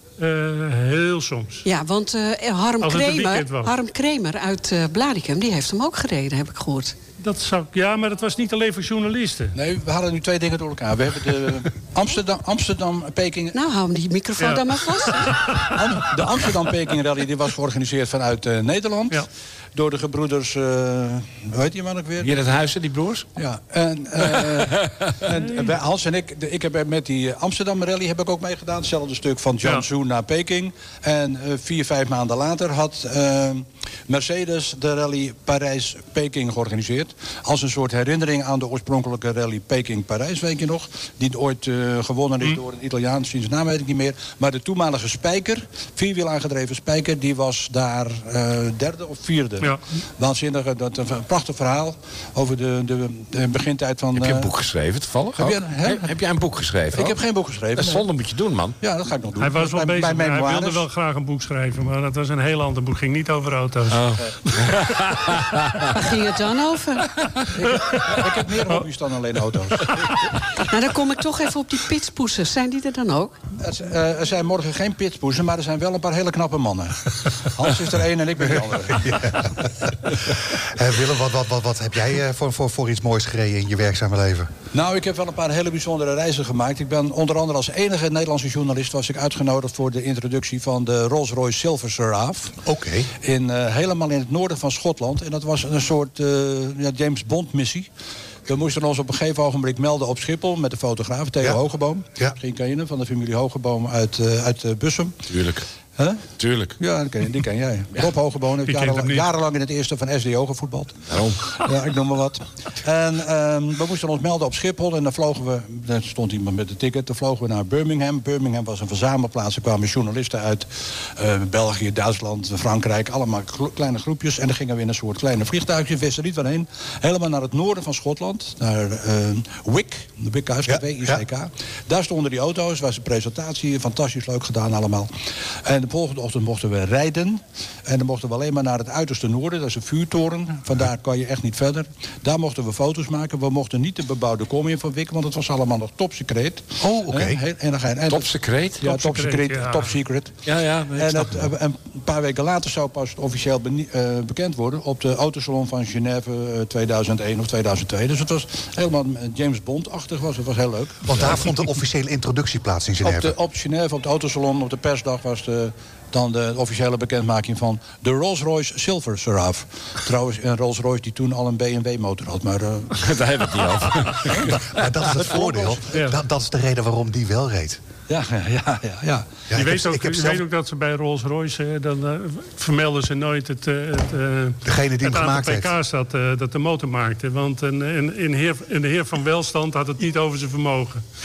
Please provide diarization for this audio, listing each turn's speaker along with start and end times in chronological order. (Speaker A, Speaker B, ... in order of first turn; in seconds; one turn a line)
Speaker A: 0.2-1.6
Speaker B: 1.6-6.9
Speaker A: 2.8-3.7
Speaker A: 7.2-9.5
Speaker C: 9.5-13.6
Speaker B: 13.5-15.4
Speaker A: 14.4-16.0
Speaker C: 15.7-22.3
Speaker D: 22.2-23.3
Speaker C: 23.4-54.5
Speaker D: 24.4-24.9
Speaker A: 25.4-25.7
Speaker D: 54.1-57.2
Speaker C: 55.4-56.1
Speaker C: 56.9-58.1
Speaker D: 57.7-58.8
Speaker C: 58.8-60.9
Speaker A: 59.4-65.3
Speaker D: 63.9-65.8
Speaker B: 65.9-67.1
Speaker C: 67.5-70.0
Speaker A: 67.7-68.8
Speaker B: 70.6-73.3
Speaker C: 73.6-79.2
Speaker E: 78.9-84.5
Speaker C: 84.7-92.6
Speaker E: 92.6-93.1
Speaker C: 93.2-97.9
Speaker C: 98.5-105.2
Speaker D: 105.3-105.7
Speaker C: 106.0-106.3
Speaker D: 106.4-106.8
Speaker C: 106.8-135.1
Speaker A: 108.7-109.2
Speaker D: 111.1-111.4
Speaker E: 130.7-131.2
Speaker C: 135.6-150.3
Speaker E: 146.8-147.4
Speaker D: 148.1-148.9
Speaker A: 148.8-149.9
Speaker D: 150.4-151.5
Speaker C: 150.9-161.2
Speaker E: 161.1-163.3
Speaker C: 163.0-173.0
Speaker D: 172.9-174.5
Speaker E: 174.3-177.8
Speaker C: 175.3-175.8
Speaker C: 178.1-179.5
Speaker E: 179.5-180.4
Speaker A: 179.5-191.0
Speaker E: 184.6-185.7